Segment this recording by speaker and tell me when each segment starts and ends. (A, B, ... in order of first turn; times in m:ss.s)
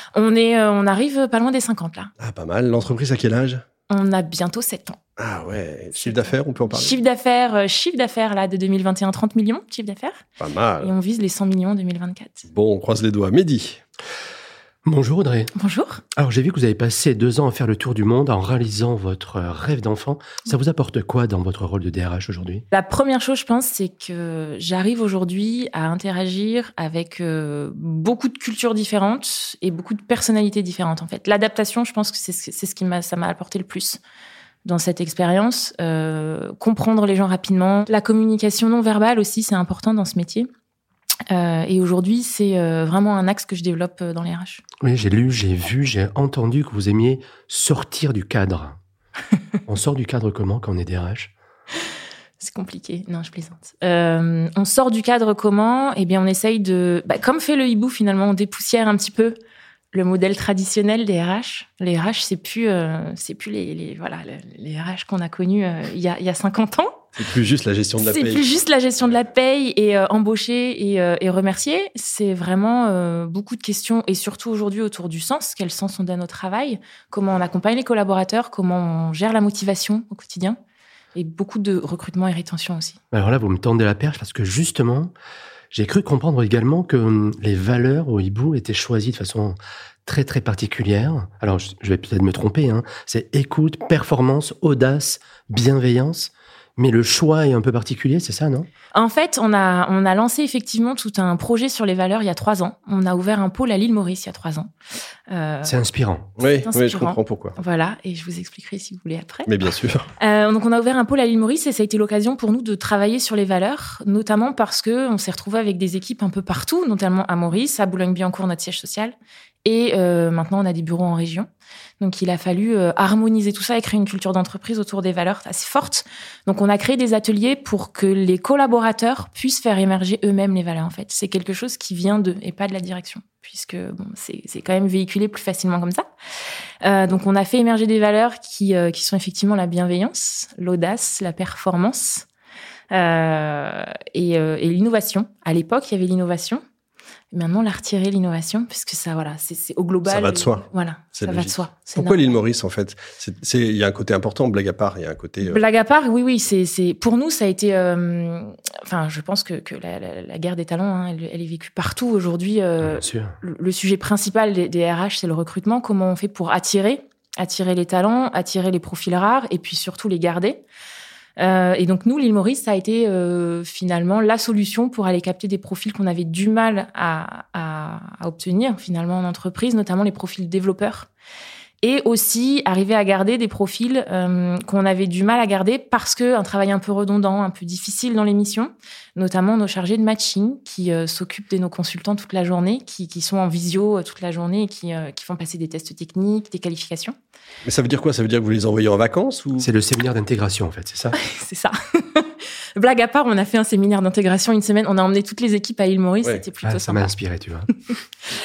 0:00.1-0:02.1 A
0:02.2-0:03.6 B
0:03.9-0:05.0 A
0:05.2-0:07.0 B
0:06.0-0:10.2 A
0:10.4-0:10.9 B
0:10.8-0:12.5 A
0:12.5-0:13.8 B
0:14.8-0:15.5 C
0:15.5-0:16.0 A
0:16.2-0:22.6 C
0:22.7-0:34.0 A
0:34.6-0:40.5 A
0:41.3-0:44.6 A
0:44.8-0:48.8 C
0:49.7-0:51.3 C
0:52.4-0:59.3 A
0:59.9-1:07.0 A
1:07.2-1:08.6 B
1:08.0-1:20.6 A
1:21.1-1:23.0 A
1:23.1-1:25.1 C
1:25.7-1:38.7 C
1:38.9-1:44.7 A
1:45.3-1:45.8 A
1:45.6-1:46.3 C
1:46.4-1:47.6 B
1:46.6-1:49.5 A
1:49.4-1:50.1 B
1:50.2-2:01.5 A
2:02.0-2:16.1 A
2:16.8-2:22.3 A
2:22.9-2:26.6 A
2:27.3-2:32.4 A
2:30.1-2:35.6 B
2:35.4-2:50.6 A
2:42.8-2:43.4 C
2:51.4-3:01.1 A
3:01.8-3:17.2 A
3:17.6-3:19.7 B
3:19.6-3:21.2 C
3:21.1-3:27.2 A
3:26.6-3:27.7 C